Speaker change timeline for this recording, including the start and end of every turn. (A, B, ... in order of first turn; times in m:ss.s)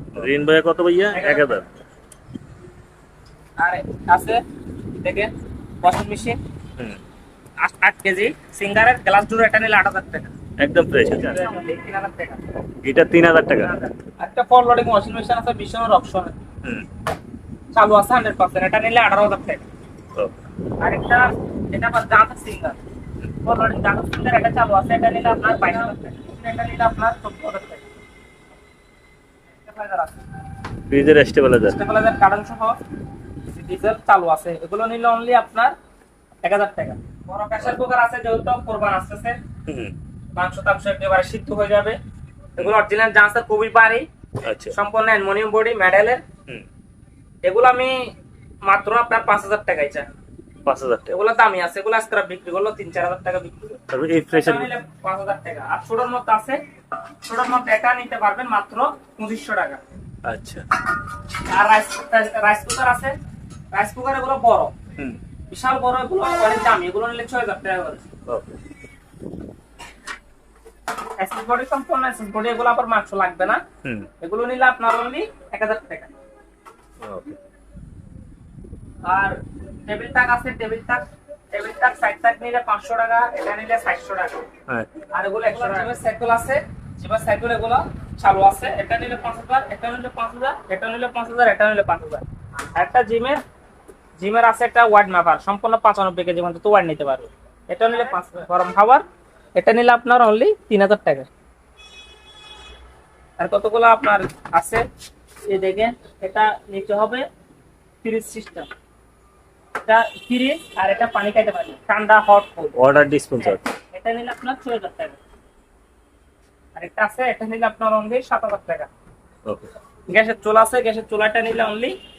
0:00.1-0:01.7 A
0:01.1-0:01.5 B
0:03.6-0:04.4 B
0:05.0-0:05.3 B
0:05.8-0:06.4 B
0:07.6-0:10.3 B
0:10.6-0:11.4 A
0:11.2-0:12.4 B
0:12.8-0:13.7 A
0:13.6-0:16.4 B
0:17.7-0:19.6 B
0:20.8-0:22.8 B
0:23.4-0:27.9 B
0:29.6-0:30.2 B
0:30.9-0:31.8 A
0:31.7-0:32.8 B
0:33.5-0:35.7 B
0:36.4-0:39.4 B
0:39.7-0:39.9 A
0:40.4-0:42.0 B
0:42.6-0:44.1 B
0:44.4-0:44.8 A
0:44.7-0:46.2 B
0:47.4-0:48.1 B
0:48.6-0:50.0 B
0:50.6-0:51.1 A
0:51.1-0:53.8 B
0:53.9-0:54.7 A
0:54.3-0:56.6 B
0:57.2-0:59.8 B
1:00.2-1:00.6 A
1:01.5-1:03.1 B
1:03.7-1:04.7 B
1:05.5-1:08.0 B
1:08.3-1:08.6 A
1:11.2-1:13.6 B
1:13.8-1:14.1 A
1:14.2-1:16.1 B
1:17.0-1:17.4 A
1:19.0-1:24.4 B
1:25.1-1:33.4 B
1:34.2-1:39.0 B
1:39.6-1:41.3 B
1:43.4-1:44.8 B
1:45.5-1:47.3 B
1:48.0-1:48.7 B
1:49.8-1:52.7 B
1:52.8-1:53.6 A
1:53.4-1:55.2 B
1:56.7-1:58.9 B
2:00.1-2:01.9 B